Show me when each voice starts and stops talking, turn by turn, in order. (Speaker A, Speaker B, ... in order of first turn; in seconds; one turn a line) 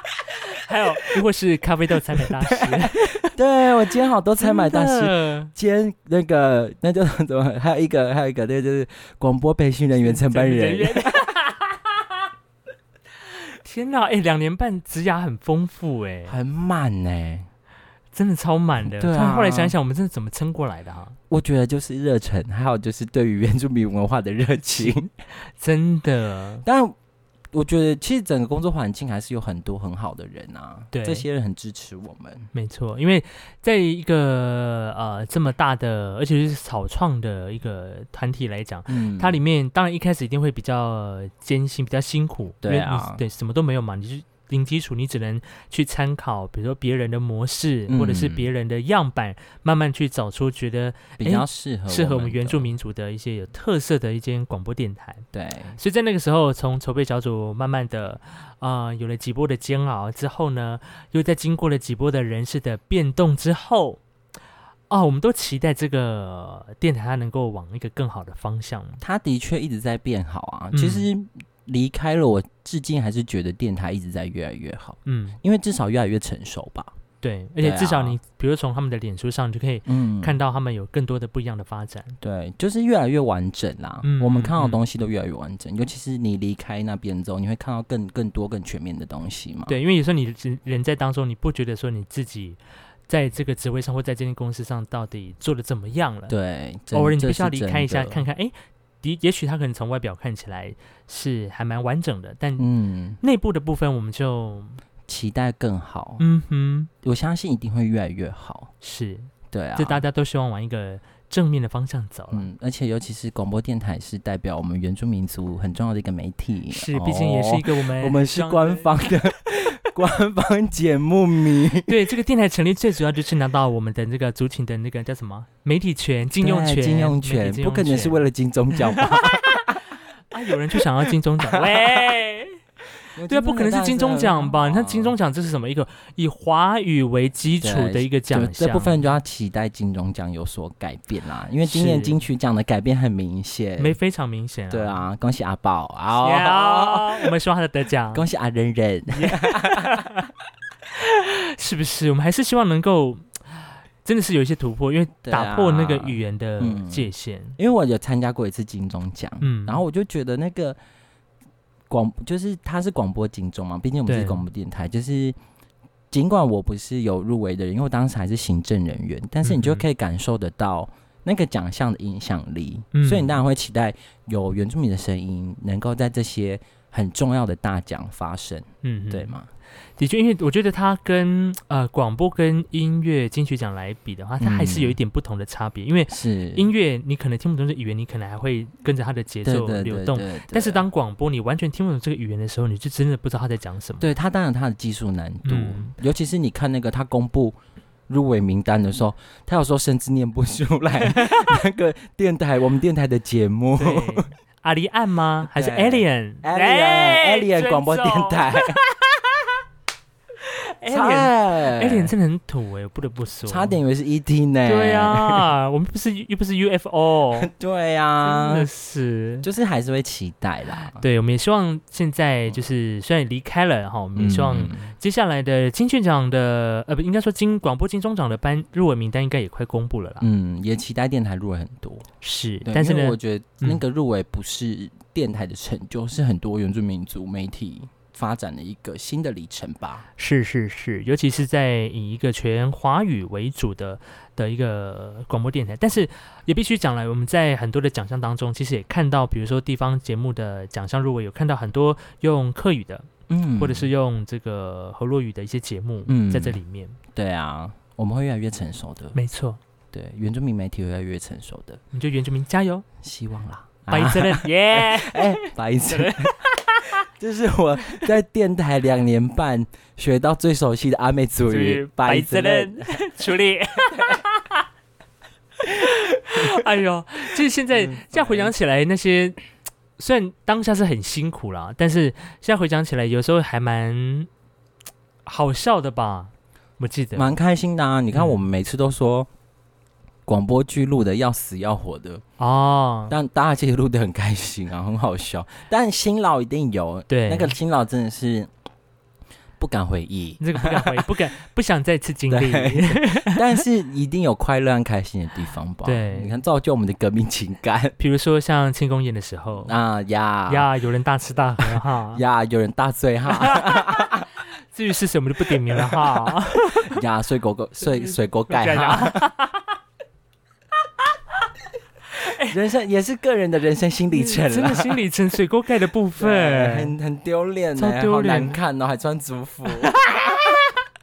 Speaker A: 0.5-3.3
Speaker B: 2.2-11.2
Speaker A: 4.4-5.5
Speaker A: 10.0-12.1
Speaker A: 13.6-16.4
Speaker B: 16.3-17.5
Speaker A: 18.1-21.2
Speaker B: 18.8-19.7
Speaker B: 21.3-25.1
Speaker A: 24.8-26.6
Speaker B: 26.6-27.0
Speaker B: 27.5-32.5
Speaker A: 30.9-31.3
Speaker A: 32.5-55.2
Speaker B: 38.9-39.4
Speaker B: 42.6-43.2
Speaker B: 47.9-48.5
Speaker B: 51.2-52.7
Speaker B: 55.3-55.8
Speaker A: 55.8-64.0
Speaker A: 64.9-69.0
Speaker B: 69.0-76.9
Speaker A: 70.7-71.1
Speaker A: 75.1-75.4
Speaker A: 77.2-82.2
Speaker B: 77.6-78.2
Speaker B: 79.9-80.3
Speaker B: 82.2-89.8
Speaker A: 84.0-84.8
Speaker A: 89.7-96.3
Speaker B: 96.3-98.2
Speaker A: 96.9-102.7
Speaker B: 102.6-103.2
Speaker A: 103.2-104.8
Speaker B: 105.1-106.2
Speaker A: 106.2-106.9
Speaker B: 107.0-108.7
Speaker A: 108.8-112.5
Speaker B: 109.5-110.0
Speaker B: 112.3-122.0
Speaker A: 116.7-118.9
Speaker A: 121.9-129.4
Speaker B: 126.4-129.8
Speaker A: 130.3-132.6
Speaker B: 131.6-132.0
Speaker B: 133.2-135.2
Speaker A: 133.3-139.0
Speaker B: 137.6-144.0
Speaker A: 141.6-142.2
Speaker A: 143.8-145.0
Speaker B: 144.7-147.3
Speaker A: 146.2-148.2
Speaker B: 148.1-150.1
Speaker A: 149.1-150.3
Speaker A: 150.9-153.5
Speaker A: 154.0-157.6
Speaker B: 155.2-160.8
Speaker A: 159.4-159.8
Speaker B: 161.9-165.4
Speaker A: 164.1-164.4
Speaker B: 166.1-179.5
Speaker A: 169.4-169.8
Speaker A: 172.9-173.4
Speaker A: 178.8-179.3
Speaker A: 180.0-194.1
Speaker B: 184.4-185.0
Speaker B: 186.1-186.7
Speaker B: 189.4-190.8
Speaker B: 194.0-197.6
Speaker A: 195.4-195.9
Speaker B: 198.1-204.3
Speaker A: 201.0-201.5
Speaker A: 203.8-209.2
Speaker B: 205.5-208.8
Speaker A: 210.4-213.8
Speaker B: 210.9-212.1
Speaker B: 213.5-215.5
Speaker A: 214.7-217.5
Speaker B: 217.4-218.7
Speaker A: 218.2-219.5
Speaker B: 219.4-221.0
Speaker A: 220.9-230.3
Speaker B: 224.2-224.9
Speaker B: 230.2-232.1
Speaker A: 232.2-233.8
Speaker B: 232.7-240.1
Speaker A: 240.2-257.0
Speaker B: 253.3-253.9
Speaker B: 256.1-256.6
Speaker B: 257.1-259.2
Speaker A: 259.1-259.6
Speaker B: 259.9-261.8
Speaker A: 261.9-262.9
Speaker B: 263.0-266.4
Speaker A: 263.9-267.0
Speaker B: 267.0-273.1
Speaker A: 271.5-274.6
Speaker A: 275.6-279.4
Speaker B: 277.7-278.5
Speaker A: 280.0-284.3
Speaker A: 285.2-287.3
Speaker B: 287.1-289.3
Speaker A: 288.1-288.4
Speaker B: 290.3-292.2
Speaker A: 292.4-293.1
Speaker B: 293.1-298.5
Speaker A: 297.1-297.6
Speaker B: 299.6-301.1
Speaker A: 300.4-303.6
Speaker B: 302.3-308.0
Speaker A: 305.9-306.3
Speaker A: 308.0-309.7
Speaker B: 309.6-310.7
Speaker A: 310.5-312.2
Speaker B: 311.6-314.3
Speaker A: 313.3-314.1
Speaker A: 314.7-317.0
Speaker B: 315.8-319.3
Speaker A: 318.0-319.7
Speaker A: 322.1-322.6
Speaker B: 322.5-325.0
Speaker A: 324.1-326.9
Speaker B: 326.2-330.6
Speaker A: 327.8-328.6
Speaker A: 329.7-330.5